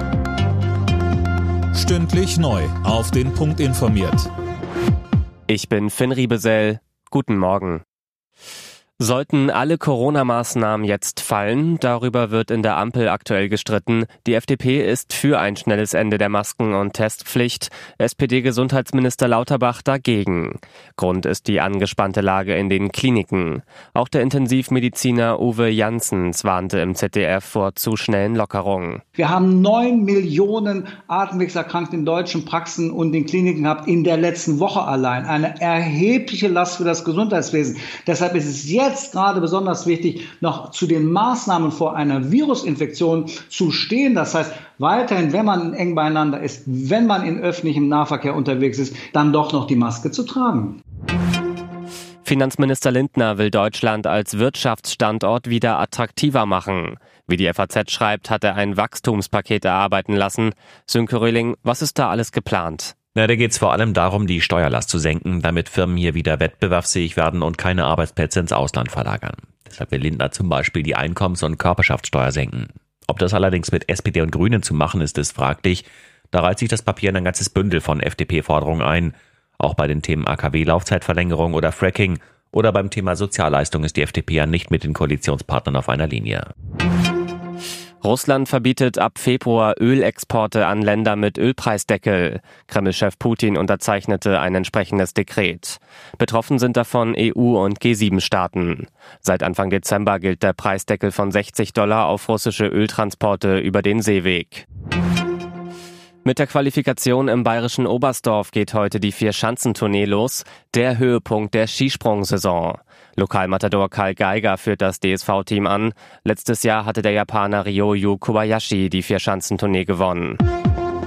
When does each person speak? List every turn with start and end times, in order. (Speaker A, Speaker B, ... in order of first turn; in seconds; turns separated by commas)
Speaker A: 1.7-4.3, Speaker B: 5.5-7.8, Speaker B: 9.0-29.0, Speaker C: 29.2-50.8, Speaker B: 52.2-63.0, Speaker D: 63.1-86.5, Speaker B: 88.0-104.7, Speaker B: 106.2-120.4